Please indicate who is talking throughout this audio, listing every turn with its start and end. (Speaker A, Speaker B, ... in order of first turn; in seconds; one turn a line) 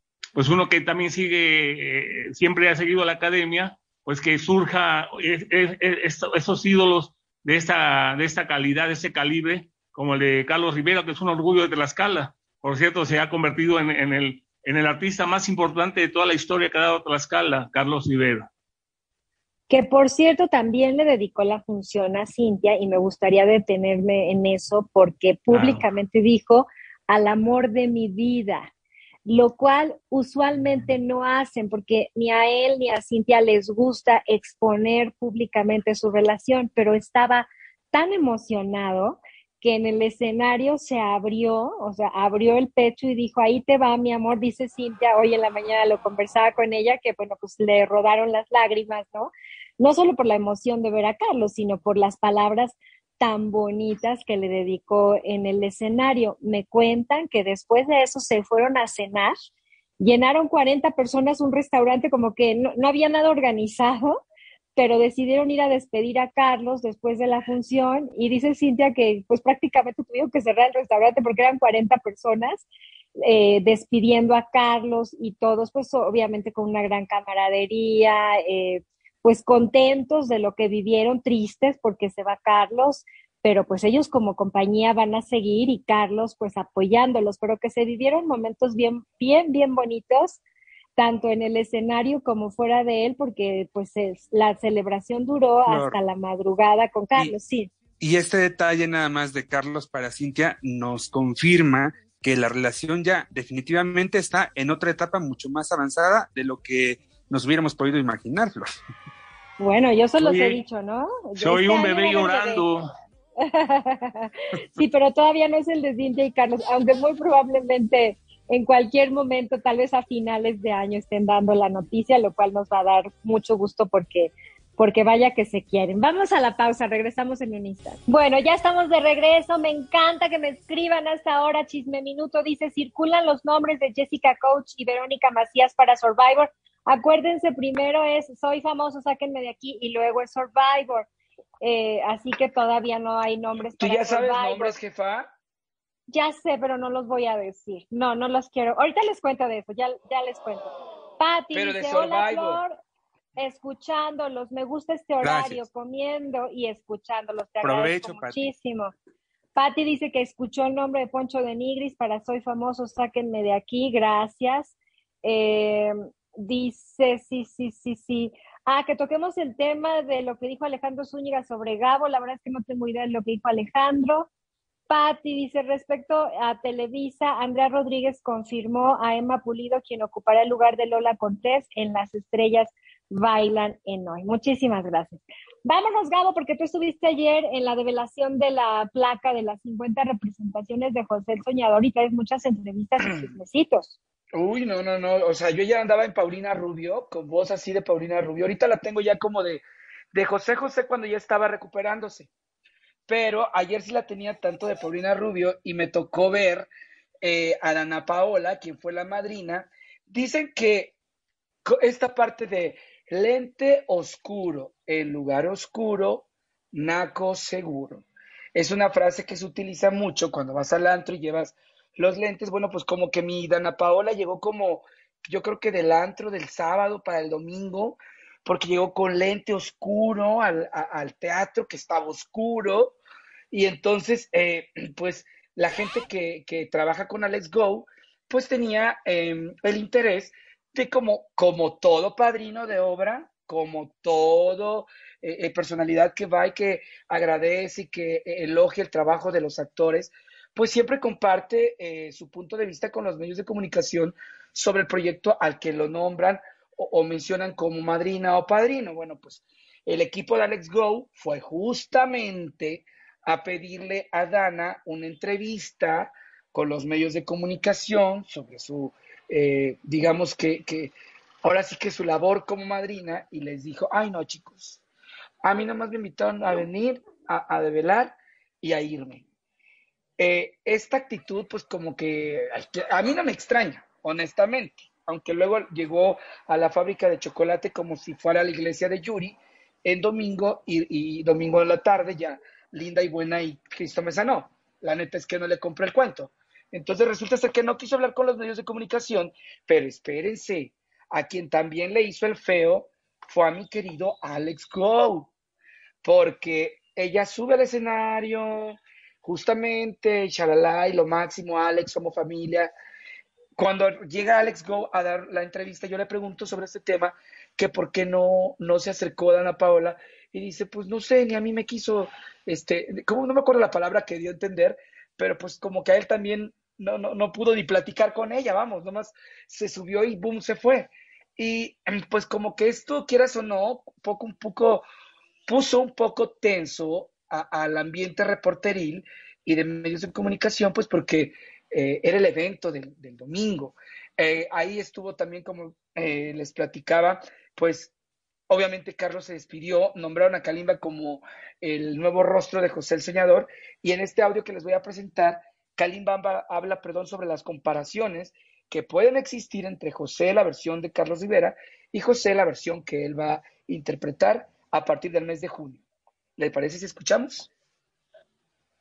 Speaker A: 0.3-18.5
Speaker B: 19.7-28.7
Speaker A: 25.5-25.8
Speaker B: 29.2-59.4
Speaker B: 60.0-64.2
Speaker B: 64.8-72.7
Speaker B: 73.2-90.4
Speaker B: 91.0-97.7
Speaker C: 95.7-96.0
Speaker C: 98.0-108.7
Speaker B: 109.6-112.6
Speaker A: 110.2-110.6
Speaker A: 111.4-112.9
Speaker B: 113.4-141.1
Speaker B: 141.6-144.8
Speaker D: 143.8-145.3
Speaker B: 146.1-152.8
Speaker D: 151.5-152.6
Speaker B: 153.4-158.9
Speaker C: 155.2-155.6
Speaker C: 157.6-158.5
Speaker B: 159.6-174.3
Speaker B: 174.9-193.9
Speaker D: 194.3-202.3
Speaker D: 203.1-206.7
Speaker D: 207.2-210.9
Speaker D: 211.6-233.0
Speaker D: 233.5-270.9
Speaker D: 271.4-274.8
Speaker D: 275.4-279.2
Speaker D: 280.2-305.3
Speaker D: 306.0-312.7
Speaker D: 313.6-334.9
Speaker D: 335.5-347.9
Speaker D: 348.5-365.8
Speaker D: 366.4-367.5